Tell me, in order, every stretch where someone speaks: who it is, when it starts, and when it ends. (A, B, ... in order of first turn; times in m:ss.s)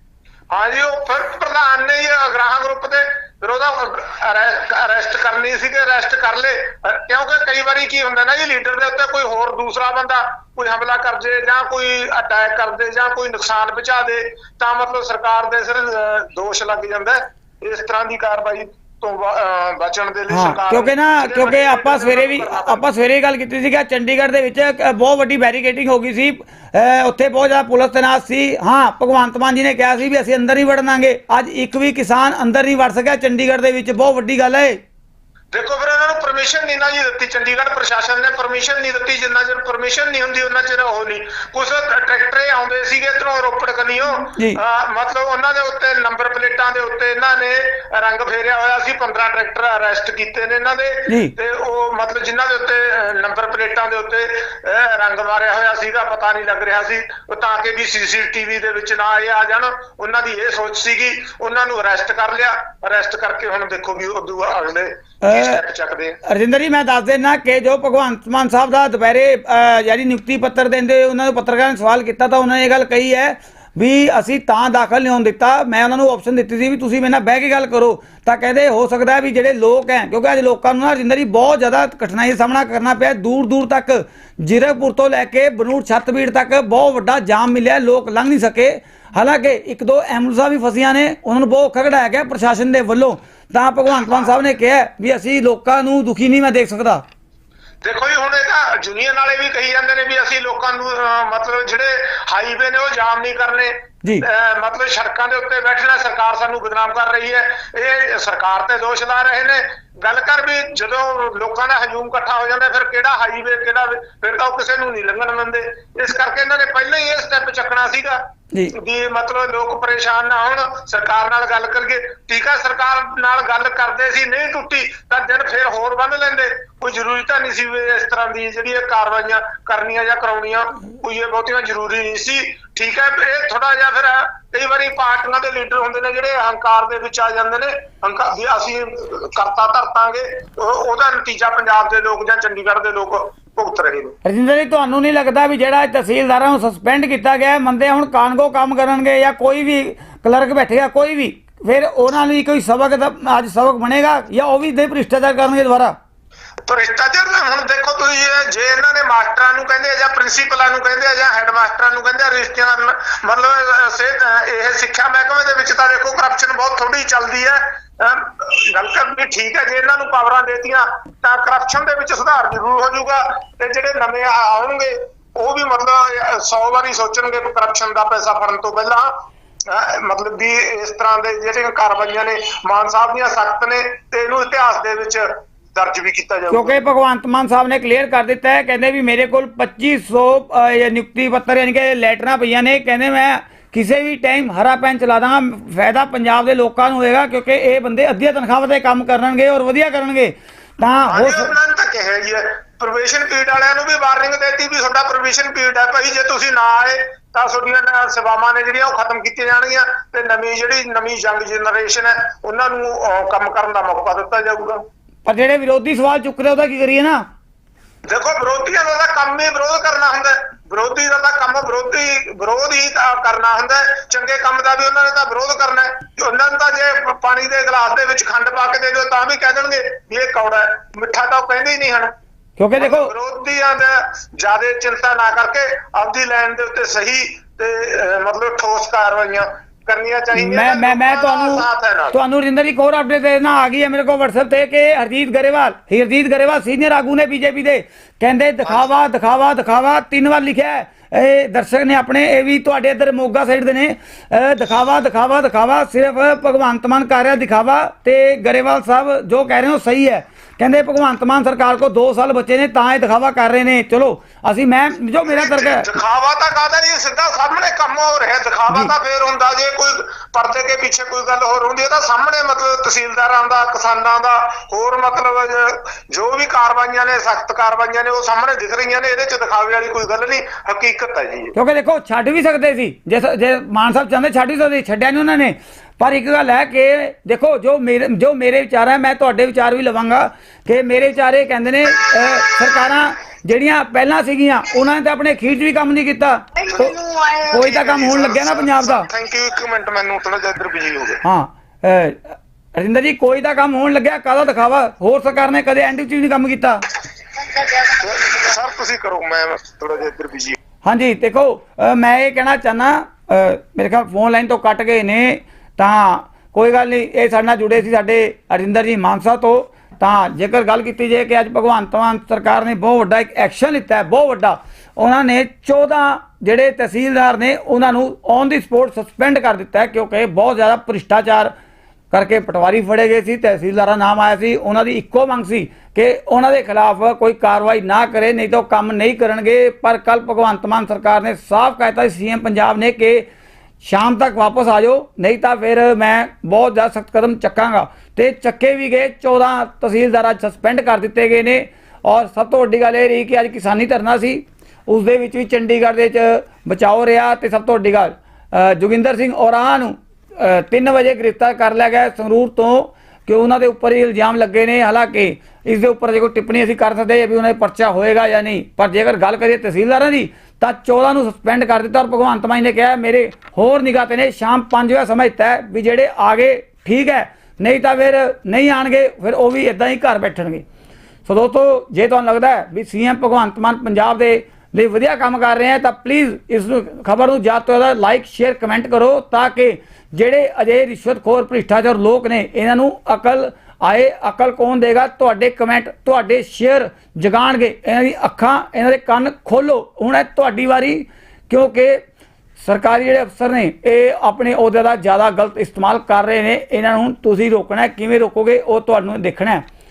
0:00.5-0:22.8 A
0:20.3-0:34.8 B
0:35.5-1:06.2 A
0:44.3-0:44.6 B
0:51.1-0:51.3 B
1:05.2-1:05.6 B
1:06.2-1:37.0 B
1:34.0-1:34.3 A
1:37.8-1:58.2 A
1:58.7-2:24.2 A
2:24.2-2:35.9 B
2:36.6-2:59.1 A
2:59.7-3:06.8 A
3:06.5-3:21.5 B
3:21.0-3:34.8 A
3:35.2-3:37.2 B
3:38.1-3:52.1 A
3:52.6-3:53.1 B
3:52.8-4:02.2 A
4:00.3-4:25.8 B
4:08.6-4:09.0 A
4:25.2-4:41.5 A
4:41.5-4:56.9 B
4:56.7-5:01.2 A
4:57.5-4:59.1 B
5:01.2-5:06.8 B
5:07.7-5:10.6 A
5:10.8-5:31.5 B
5:32.1-5:43.2 B
5:43.8-6:20.6 B
6:21.3-6:42.0 B
6:42.6-6:49.6 B